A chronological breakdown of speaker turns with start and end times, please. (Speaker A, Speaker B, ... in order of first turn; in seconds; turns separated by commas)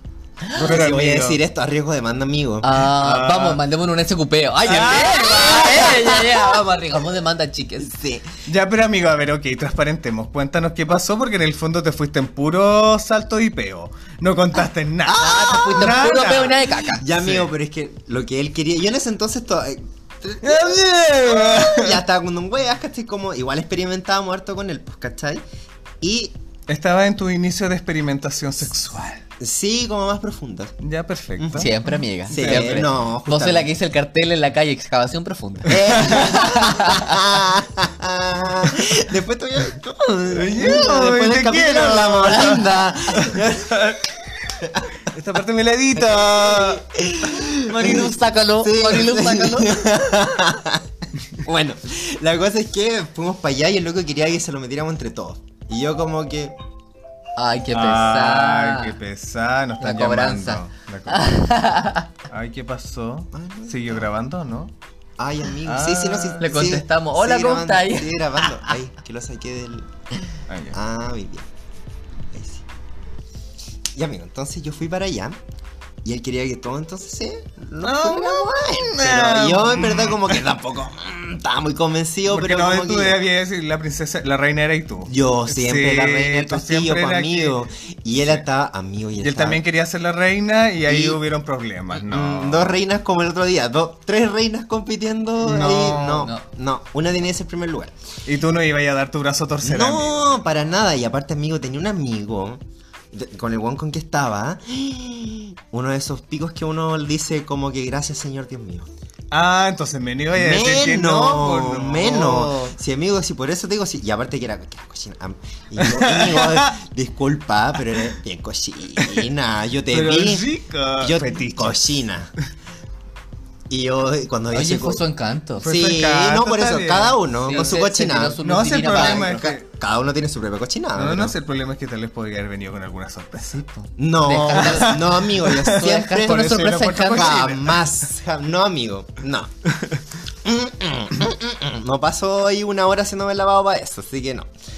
Speaker A: 0.6-1.4, Speaker B: 0.6-2.7, Speaker C: 2.6-7.9, Speaker A: 2.8-3.6, Speaker A: 4.7-5.9, Speaker B: 5.3-6.5, Speaker B: 7.8-8.3, Speaker A: 8.5-17.5, Speaker B: 15.1-16.4, Speaker C: 15.2-17.1, Speaker B: 16.9-25.4, Speaker A: 20.4-22.0, Speaker B: 26.0-26.4, Speaker A: 26.7-29.2, Speaker B: 29.4-30.8, Speaker A: 30.8-31.8, Speaker B: 31.4-31.7, Speaker C: 31.6-37.2, Speaker B: 32.3-33.7, Speaker A: 32.3-32.9, Speaker B: 35.7-44.0, Speaker A: 40.3-44.0, Speaker B: 44.6-44.9, Speaker A: 45.0-47.5, Speaker B: 46.0-50.9, Speaker C: 47.7-49.8, Speaker B: 51.4-56.6, Speaker C: 57.4-59.0, Speaker A: 57.7-61.4, Speaker C: 59.8-62.1, Speaker A: 62.3-64.7, Speaker B: 63.3-64.1, Speaker B: 65.2-69.9, Speaker A: 65.6-66.5, Speaker C: 66.4-68.5, Speaker A: 70.5-70.8, Speaker B: 70.7-71.5, Speaker B: 72.3-72.7, Speaker B: 73.9-75.4, Speaker B: 76.0-83.2, Speaker A: 77.8-80.4, Speaker A: 82.3-87.6, Speaker B: 85.1-89.6, Speaker A: 89.2-92.8, Speaker B: 90.9-91.2, Speaker B: 91.9-97.9, Speaker A: 95.4-96.3, Speaker C: 96.2-96.5, Speaker A: 98.3-100.5, Speaker B: 99.6-102.6, Speaker B: 103.1-108.9, Speaker A: 109.3-112.7, Speaker B: 110.3-120.5, Speaker A: 115.8-116.7, Speaker A: 119.9-121.8, Speaker B: 121.0-122.3, Speaker B: 123.7-125.0, Speaker C: 124.5-125.7, Speaker A: 125.6-127.7, Speaker B: 125.6-131.3, Speaker C: 127.5-129.5, Speaker A: 128.4-129.7, Speaker A: 130.9-133.6, Speaker C: 133.5-137.6, Speaker B: 134.0-139.5, Speaker A: 134.5-137.9, Speaker B: 140.4-144.5